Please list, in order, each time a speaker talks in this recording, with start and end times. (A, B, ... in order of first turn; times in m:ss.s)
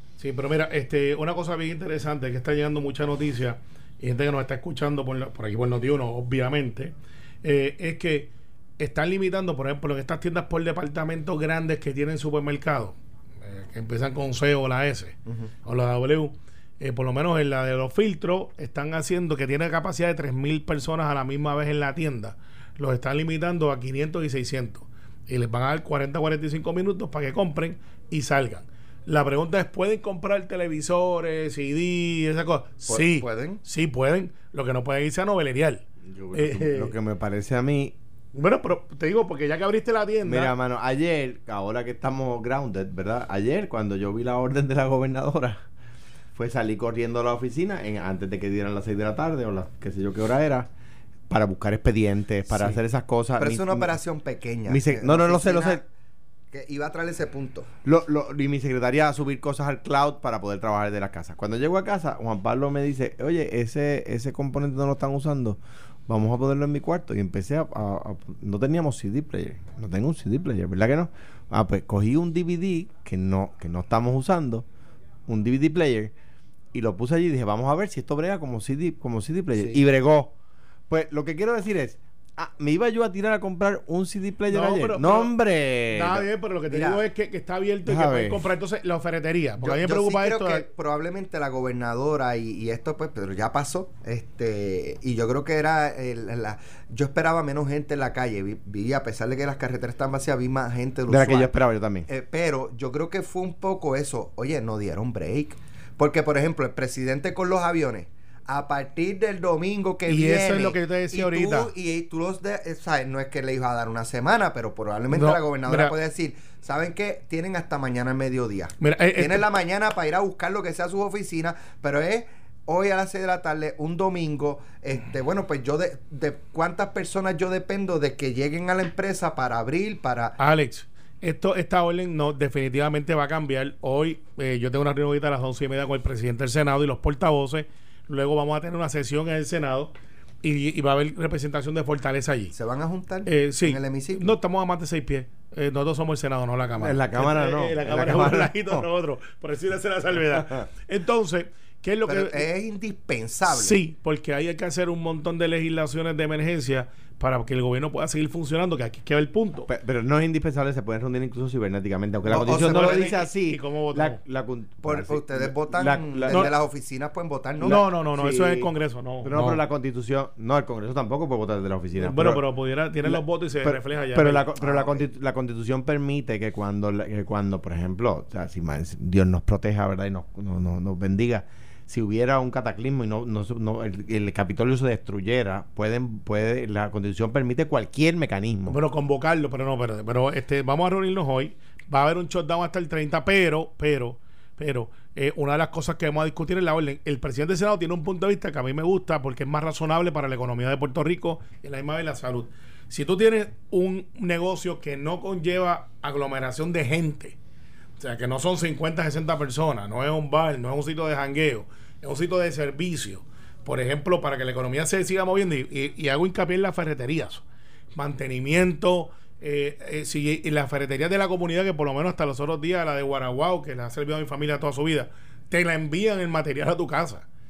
0:00.2-0:36.9 A
0:32.9-0:33.6 B
0:36.1-0:37.9 C
0:38.3-0:40.5 A
0:40.2-0:45.6 C
0:46.3-0:50.7 C
0:51.3-0:54.0 C
0:53.4-0:55.8 B
0:54.6-0:55.8 C
0:56.5-0:57.7 B
0:57.8-1:14.6 C
1:15.3-1:16.1 C
1:16.7-1:20.3 C
1:20.9-1:26.2 C
1:24.5-1:25.3 A
1:25.9-1:30.6 A
1:26.7-1:27.0 B
1:27.8-1:28.4 C
1:29.6-1:41.6 B
1:41.1-1:42.1 C
1:42.1-2:10.4 B
1:50.1-1:51.7 A
1:55.1-1:56.0 A
1:58.8-1:59.5 A
2:10.4-2:22.5 A
2:22.5-2:24.3 B
2:23.2-2:32.5 A
2:26.8-2:28.8 C
2:30.4-2:30.6 C
2:32.0-2:33.8 B
2:33.5-2:39.7 A
2:39.7-2:46.5 C
2:42.3-2:43.2 B
2:42.3-2:44.2 A
2:44.8-2:47.8 B
2:47.6-2:48.7 C
2:47.6-2:49.6 A
2:49.2-2:52.4 C
2:52.0-2:54.5 A
2:53.0-3:08.8 C
2:54.6-2:55.0 B
3:08.7-3:27.4 A
3:28.0-3:37.4 A
3:37.9-3:47.2 A